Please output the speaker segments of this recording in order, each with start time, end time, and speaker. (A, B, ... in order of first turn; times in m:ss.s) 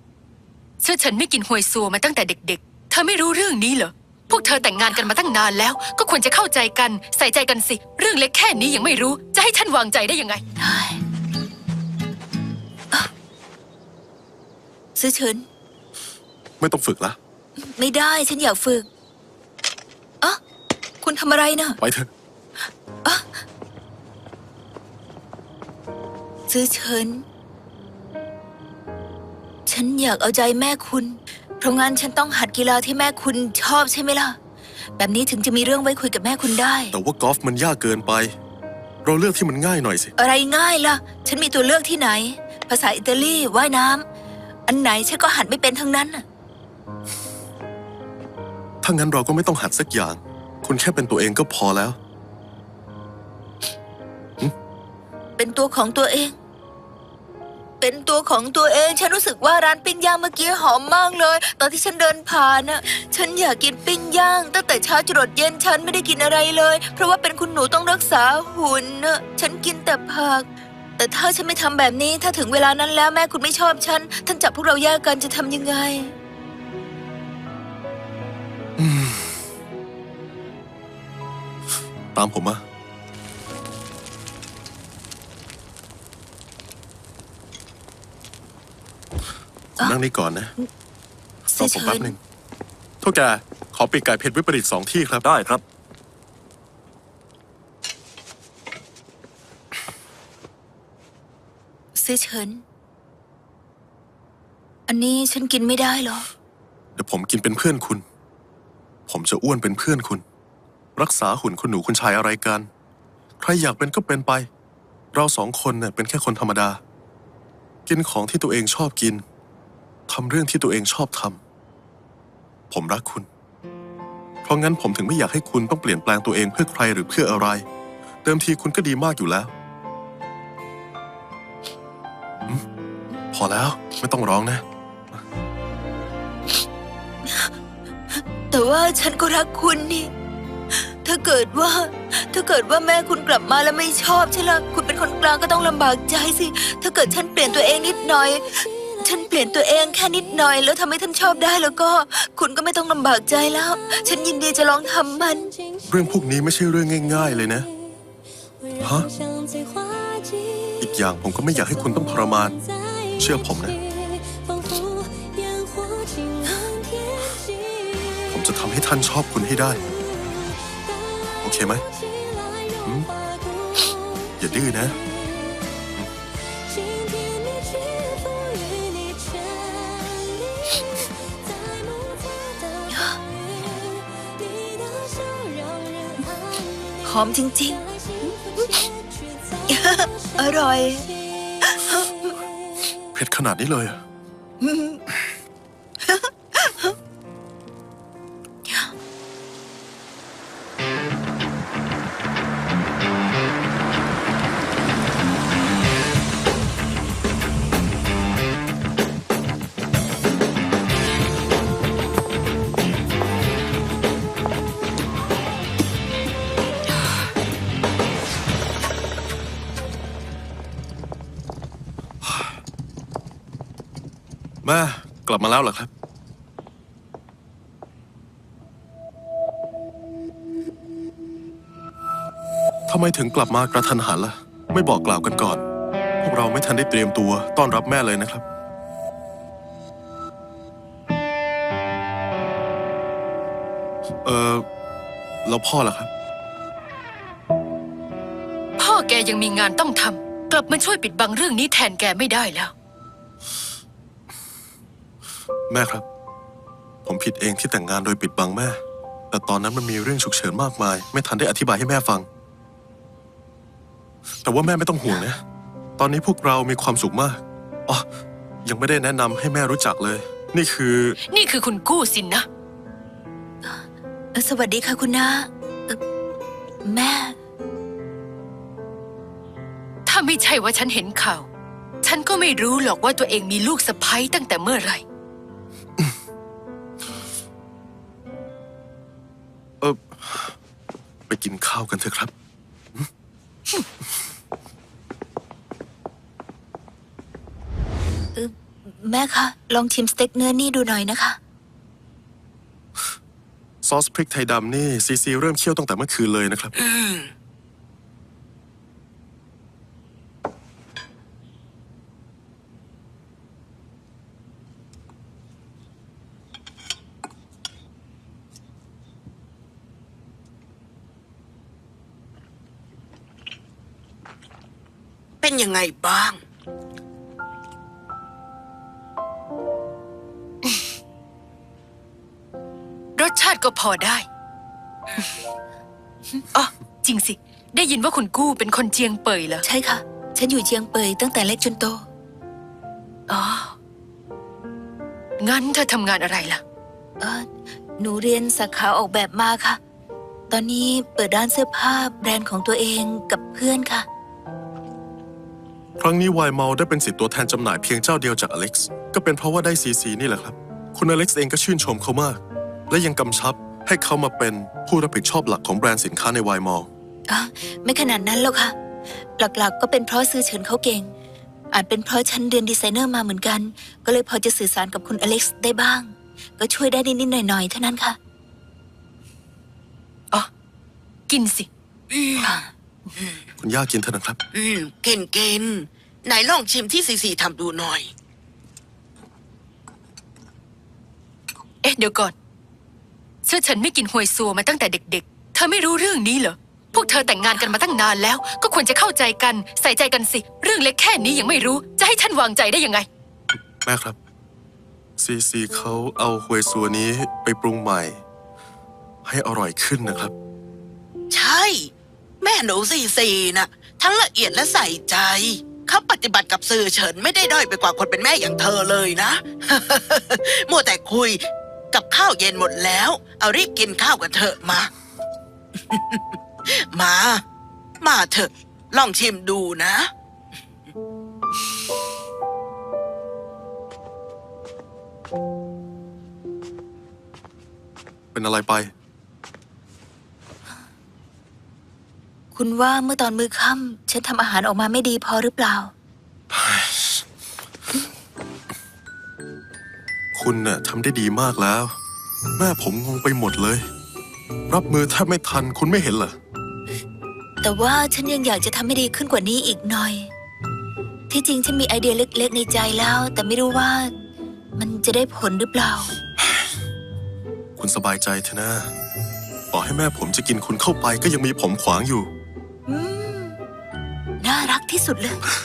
0:00.8-0:10.4 A
0:10.6-0:11.0 B
0:15.0-0:15.4 B
0:16.6-0:17.2 C
0:17.6-0:18.8 B
0:21.0-0:21.8 B
0:21.8-0:22.1 C
0:23.0-0:23.3 B
0:26.5-0:27.2 B
0:29.7-0:34.4 B
0:35.0-0:36.9 B
0:36.9-0:38.3 C
0:39.0-0:40.1 C
0:40.2-0:44.0 B
0:44.7-0:46.2 B
0:48.8-0:52.0 C
0:55.4-0:56.4 B
0:57.8-1:16.1 B
1:18.8-1:19.4 C
1:22.1-1:22.6 C
1:29.8-1:30.5 C
1:31.5-1:32.2 C
1:31.6-1:32.2 B
1:33.0-1:35.2 C
1:42.0-1:42.6 B
1:44.9-1:46.3 B
1:47.0-1:48.0 C
1:49.1-1:50.2 C
1:51.0-1:52.7 C
1:53.4-1:54.5 C
1:55.1-1:56.8 C
1:57.9-1:59.2 C
2:00.1-2:01.4 C
2:02.7-2:03.3 C
2:04.4-2:07.6 C
2:08.2-2:09.5 C
2:13.3-2:15.2 C
2:17.3-2:17.5 B
2:18.1-2:20.1 B
2:20.7-2:35.5 B
2:35.9-2:37.7 C
2:38.8-2:39.1 C
2:40.8-2:42.6 C
2:43.1-2:43.8 C
2:48.3-2:49.9 C
2:51.4-2:51.8 C
2:52.8-2:53.1 C
2:54.4-2:55.0 C
3:02.9-3:03.2 B
3:07.0-3:07.8 B
3:08.6-3:08.8 B
3:09.7-3:12.1 B
3:13.1-3:14.0 C
3:14.6-3:15.0 B
3:16.0-3:16.9 B
3:42.2-3:42.5 C
3:44.6-3:45.9 C
3:52.9-3:55.6 C
3:56.2-3:58.4 C
4:04.2-4:04.6 C
4:05.4-4:06.1 C
4:08.8-4:12.7 A
4:15.7-4:16.0 C
4:17.0-4:22.3 C
4:24.4-4:25.4 C
4:26.0-4:28.0 C
4:28.6-4:31.2 C
4:31.3-4:32.4 A
4:33.6-4:36.0 B
4:36.8-4:37.4 B
4:40.0-4:41.5 A
4:42.0-4:45.0 A
4:49.8-4:50.5 C
4:51.3-4:52.3 C
4:58.4-5:01.4 B
5:03.8-5:06.7 C
5:06.8-5:07.3 D
5:25.4-5:26.4 D
5:33.2-5:34.2 A
5:36.5-5:39.6 A
5:39.6-5:42.0 B
5:43.3-5:43.7 A
5:45.4-5:46.6 A
5:47.2-5:47.5 B
5:48.0-5:49.8 B
5:50.5-5:54.0 B
5:56.0-6:06.9 C
6:07.3-6:08.7 B
6:09.4-6:11.1 B
6:11.7-6:18.2 B
6:21.3-6:21.7 A
6:22.1-6:22.5 D
6:23.2-6:23.4 D
6:23.6-6:24.4 C
6:24.5-6:28.1 D
6:31.8-6:32.3 A
6:33.4-6:43.0 A
6:43.8-6:44.2 C
6:45.2-6:48.2 C
6:49.2-6:50.3 C
6:51.3-7:04.9 D
7:05.9-7:07.4 D
7:08.0-7:10.1 D
7:18.3-7:18.9 C
7:22.5-7:25.9 B
7:26.5-7:27.2 C
7:30.3-7:31.9 C
7:32.6-7:33.9 C
7:34.7-7:36.4 C
7:37.6-7:40.3 B
7:41.3-7:44.1 B
7:44.8-7:46.1 B
7:47.8-7:48.9 C
7:49.7-7:52.3 C
7:52.9-7:53.6 B
7:54.4-7:55.4 B